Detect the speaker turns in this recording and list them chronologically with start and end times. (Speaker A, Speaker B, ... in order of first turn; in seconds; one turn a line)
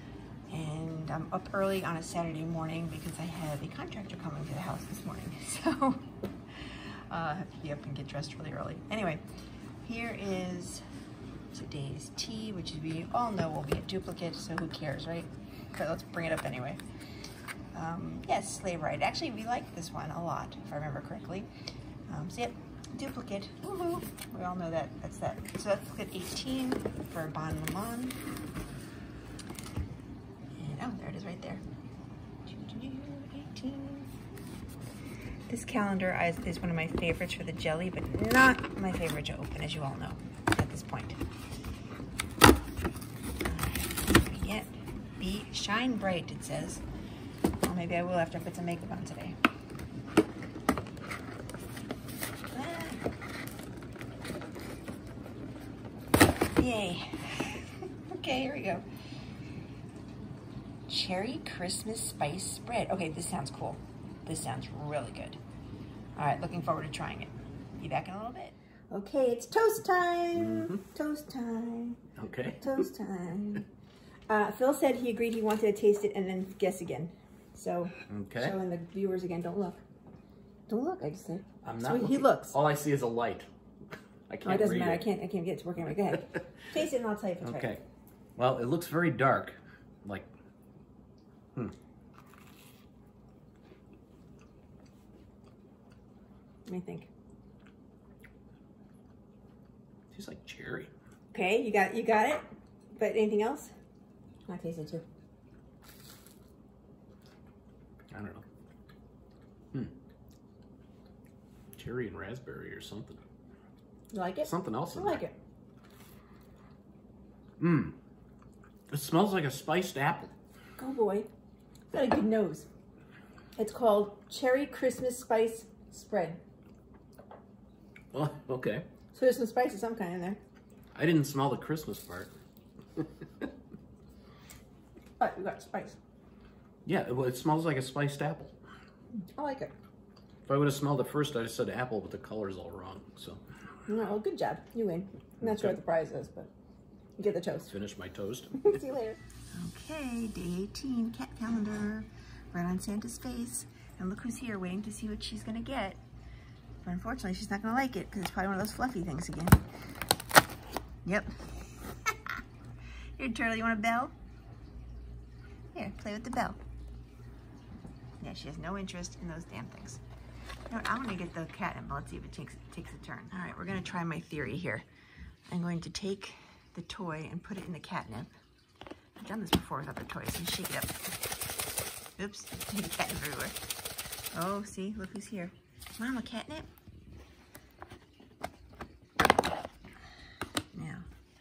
Speaker A: 0.5-9.2
Speaker A: 9.8-10.8
Speaker A: 11.5-16.8
Speaker A: 17.7-21.5
Speaker A: 22.1-28.2
Speaker A: 30.6-31.6
Speaker A: 32.5-34.1
Speaker A: 35.5-41.2
Speaker A: 43.4-46.8
Speaker A: 47.6-49.4
Speaker A: 52.5-53.1
Speaker A: 56.5-58.9
Speaker A: 60.9-65.4
Speaker A: 66.2-72.0
Speaker B: 70.3-70.8
Speaker B: 72.2-72.9
Speaker A: 72.5-73.7
Speaker A: 74.3-79.8
Speaker B: 78.1-78.6
Speaker A: 80.7-82.5
Speaker B: 81.6-83.5
Speaker B: 84.3-85.1
Speaker A: 84.4-87.7
Speaker B: 87.4-87.8
Speaker B: 88.4-90.3
Speaker A: 96.7-97.1
Speaker B: 100.1-100.9
Speaker A: 101.3-103.7
Speaker A: 104.5-105.1
Speaker B: 108.1-108.5
Speaker B: 111.7-113.2
Speaker A: 114.1-115.4
Speaker B: 114.4-115.2
Speaker B: 117.6-118.0
Speaker B: 118.9-120.3
Speaker A: 120.8-121.3
Speaker A: 121.9-122.7
Speaker A: 123.6-126.4
Speaker B: 128.1-128.9
Speaker A: 129.1-130.4
Speaker B: 130.9-132.3
Speaker B: 132.9-133.5
Speaker A: 135.2-136.0
Speaker B: 136.8-138.6
Speaker A: 139.2-139.7
Speaker B: 140.4-143.4
Speaker A: 143.9-146.5
Speaker B: 145.4-145.7
Speaker A: 147.2-147.8
Speaker B: 147.7-148.8
Speaker A: 148.5-156.0
Speaker A: 156.8-159.6
Speaker A: 161.1-161.4
Speaker A: 163.2-164.1
Speaker A: 165.7-166.6
Speaker A: 168.2-170.0
Speaker A: 170.7-174.8
Speaker A: 175.5-178.3
Speaker A: 179.2-181.0
Speaker A: 182.2-183.6
Speaker A: 184.3-186.7
Speaker A: 190.7-191.1